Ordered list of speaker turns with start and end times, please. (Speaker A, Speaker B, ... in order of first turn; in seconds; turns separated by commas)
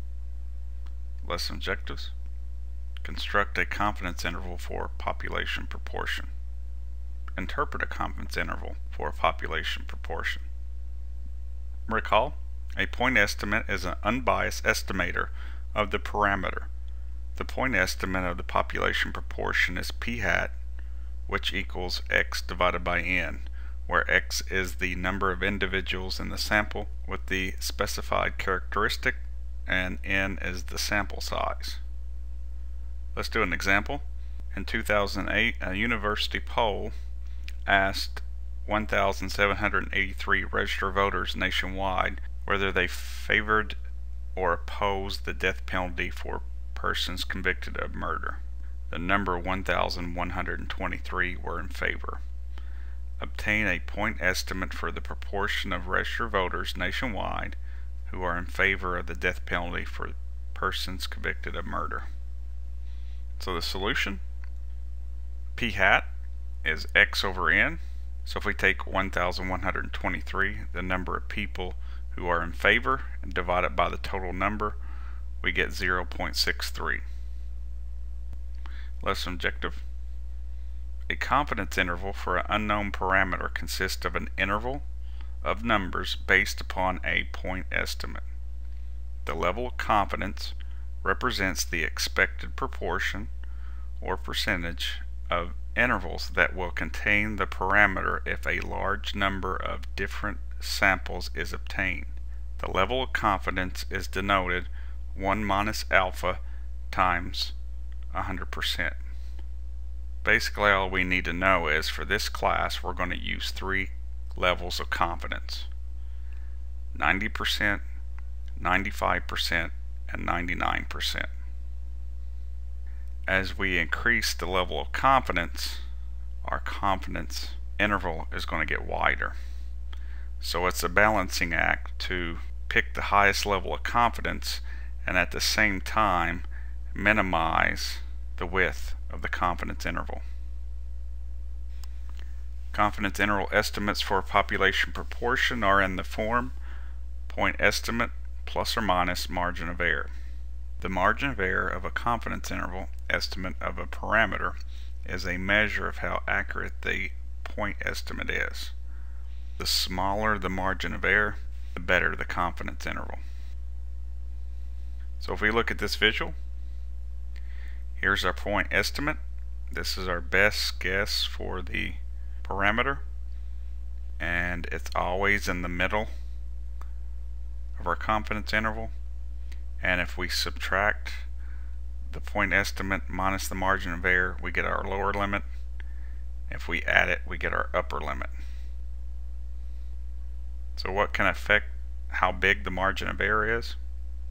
Speaker A: 1.2-2.1, Speaker A: 3.0-6.3, Speaker A: 7.3-10.4, Speaker A: 11.9-16.7, Speaker A: 17.4-20.5, Speaker A: 21.3-31.8, Speaker A: 33.1-36.9, Speaker A: 37.7-43.8, Speaker A: 44.4-52.2, Speaker A: 53.2-57.6, Speaker A: 58.1-62.1, Speaker A: 63.4-64.2, Speaker A: 65.6-66.1, Speaker A: 66.6-74.8, Speaker A: 75.4-77.0, Speaker A: 79.0-79.8, Speaker A: 81.1-84.8, Speaker A: 85.4-88.2, Speaker A: 89.2-93.3, Speaker A: 94.0-107.5, Speaker A: 108.1-109.0, Speaker A: 110.2-115.7, Speaker A: 116.9-117.8, Speaker A: 118.6-121.3, Speaker A: 123.3-125.8, Speaker A: 126.4-129.4, Speaker A: 130.4-140.2, Speaker A: 142.7-146.6, Speaker A: 147.3-150.1, Speaker A: 150.8-158.7, Speaker A: 159.6-163.2, Speaker A: 165.2-166.3, Speaker A: 168.0-169.2, Speaker A: 169.7-173.0, Speaker A: 174.2-176.1, Speaker A: 177.8-178.9, Speaker A: 179.8-181.3, Speaker A: 182.1-185.4, Speaker A: 186.5-188.3, Speaker A: 190.8-193.8